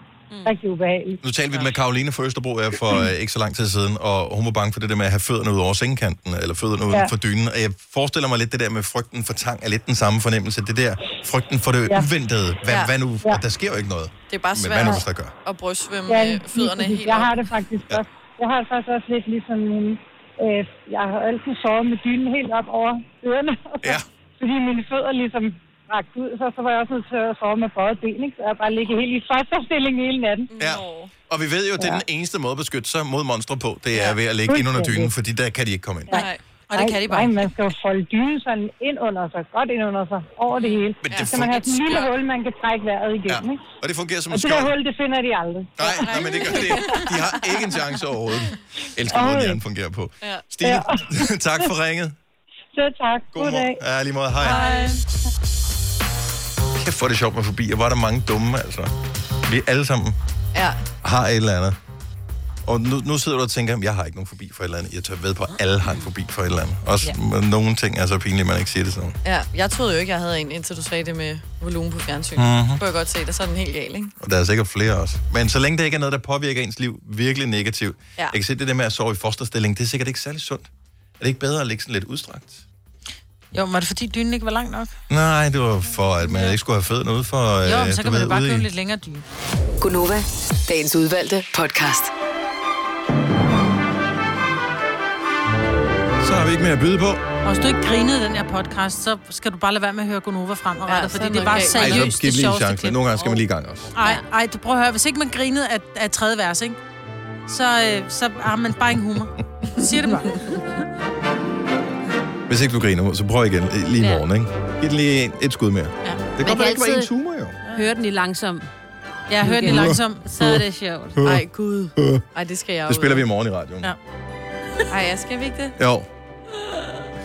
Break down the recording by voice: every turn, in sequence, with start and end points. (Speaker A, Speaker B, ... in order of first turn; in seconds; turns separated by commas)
Speaker A: 0.3-0.6, Speaker B: 0.5-1.2, Speaker C: 1.2-15.3, Speaker D: 12.7-12.9, Speaker D: 14.3-17.5, Speaker B: 16.1-30.5, Speaker D: 30.5-31.1, Speaker C: 30.6-36.2, Speaker B: 34.5-35.1, Speaker B: 36.1-43.6, Speaker D: 36.1-36.4, Speaker E: 36.7-37.4, Speaker D: 40.6-42.2, Speaker C: 41.0-41.5, Speaker C: 43.3-44.8, Speaker B: 44.3-45.9, Speaker C: 45.8-52.1, Speaker D: 46.0-47.7, Speaker B: 49.1-49.6, Speaker B: 50.6-50.9, Speaker B: 52.7-53.8, Speaker C: 53.3-54.6, Speaker D: 54.4-55.0, Speaker C: 56.7-58.9, Speaker C: 59.5-60.2, Speaker D: 60.5-60.8, Speaker C: 61.0-61.8, Speaker C: 62.6-69.1, Speaker D: 69.2-74.1, Speaker C: 72.3-72.8, Speaker C: 74.2-80.7, Speaker C: 81.2-82.6, Speaker E: 83.5-84.9, Speaker C: 85.1-88.7, Speaker E: 87.6-89.2, Speaker F: 89.8-92.1, Speaker C: 96.2-97.2, Speaker E: 97.4-103.0, Speaker D: 100.9-102.0, Speaker A: 101.1-102.1, Speaker C: 101.7-103.9, Speaker E: 104.0-106.8, Speaker E: 107.5-110.4, Speaker C: 112.5-117.6, Speaker A: 116.4-117.1, Speaker A: 117.7-118.7, Speaker E: 119.3-120.3, Speaker A: 119.4-121.2, Speaker C: 119.6-120.6, Speaker C: 121.2-121.4, Speaker D: 121.2-123.2, Speaker C: 122.0-122.2, Speaker C: 122.9-123.9, Speaker D: 124.9-125.7, Speaker C: 125.8-126.1